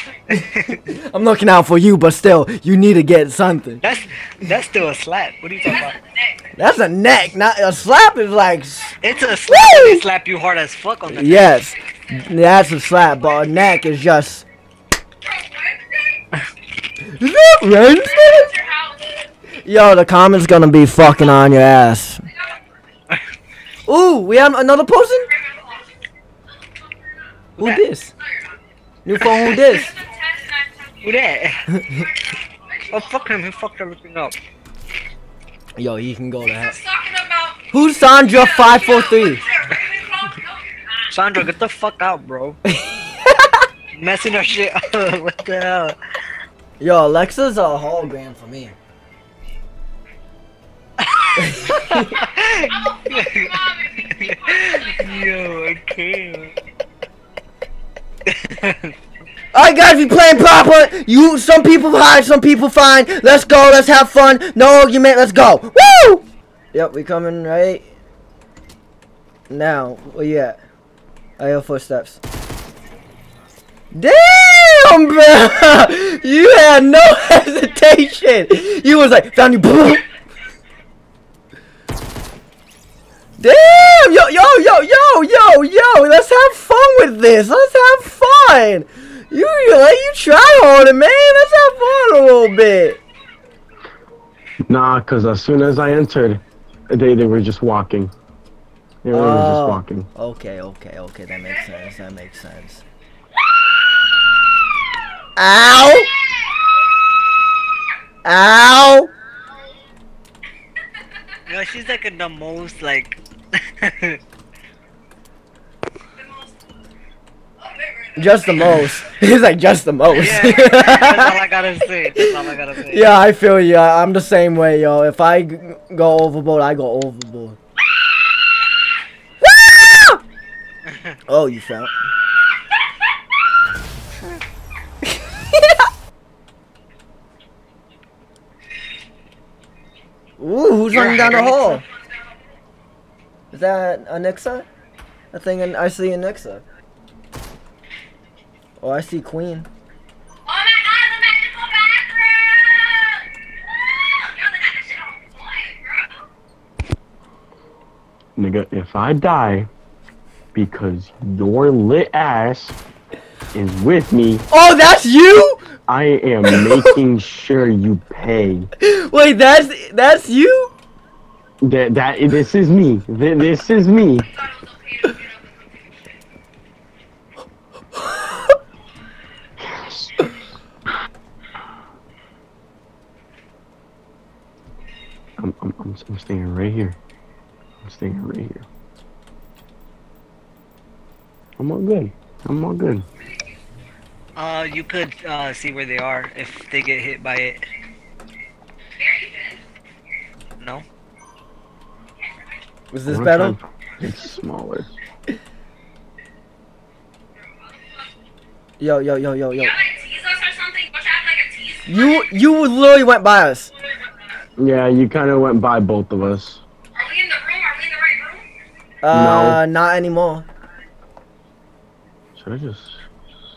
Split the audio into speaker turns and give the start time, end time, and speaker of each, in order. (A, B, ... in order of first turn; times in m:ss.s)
0:00.3-0:03.8 A
0:00.3-0:00.8 B
0:03.8-0:06.0 B
0:05.7-0:06.4 C
0:06.6-0:10.0 A
0:09.0-0:11.5 B
0:11.1-0:14.4 A
0:15.2-0:16.2 C
0:17.0-0:18.5 A
0:18.0-0:19.3 C
0:19.6-0:22.2 A
0:22.3-0:22.6 C
0:23.9-0:25.3 A
0:25.3-0:25.9 C
0:27.6-0:27.8 B
0:27.6-0:28.1 A
0:28.2-0:28.6 C
0:29.0-0:29.9 A
0:29.2-0:29.8 B
0:29.4-0:31.3 C
0:31.0-0:31.7 B
0:31.8-0:33.4 C
0:32.9-0:34.4 B
0:35.8-0:36.8 A
0:36.6-0:37.7 C
0:37.7-0:39.4 A
0:38.3-0:41.0 C
0:41.1-0:42.6 B
0:42.7-0:43.7 A
0:43.9-0:46.0 B
0:46.8-0:48.8 A
0:51.0-0:56.6 B
0:51.4-0:52.1 A
0:52.6-0:55.3 C
0:58.3-0:59.0 B
0:59.5-1:07.9 A
1:09.5-1:10.6 A
1:11.4-1:12.2 A
1:13.9-1:20.1 A
1:23.4-1:33.0 A
1:34.7-1:38.1 D
1:39.0-1:40.1 D
1:39.1-1:42.8 A
1:45.4-1:46.1 A
1:48.2-1:49.1 A
1:51.5-1:54.2 B
1:56.2-1:56.7 C
1:57.6-1:58.9 C
1:58.2-2:01.4 A
2:00.2-2:03.2 B
2:02.9-2:07.6 A
2:09.4-2:10.2 A
2:10.9-2:11.2 B
2:11.3-2:11.9 A
2:20.4-2:21.8 A
2:20.9-2:21.8 B
2:21.9-2:22.3 C
2:23.5-2:24.7 A
2:25.3-2:26.6 A
2:28.8-2:29.7 A
2:30.5-2:36.2 C
2:38.4-2:39.7 D
2:40.5-2:42.8 D
2:43.5-2:44.5 D
2:44.5-2:45.6 A
2:45.9-2:48.7 D
2:46.5-2:47.0 A
2:48.8-2:50.7 A
2:51.6-2:54.3 D
2:54.2-2:56.1 C
2:58.0-2:58.6 A
2:59.7-3:00.1 D
3:05.4-3:07.0 D
3:07.8-3:08.7 D
3:11.6-3:13.1 D
3:13.2-3:13.6 C
3:14.4-3:17.6 B
3:19.0-3:19.6 C
3:20.6-3:20.8 B
3:22.9-3:23.6 A
3:23.1-3:24.9 D
3:27.4-3:28.1 C
3:28.8-3:29.8 A
3:29.6-3:32.3 C
3:31.9-3:33.7 A
3:33.9-3:34.4 C
3:34.6-3:36.6 D
3:37.0-3:38.5 C
3:39.0-3:40.4 A
3:39.1-3:39.6 D
3:42.4-3:43.0 D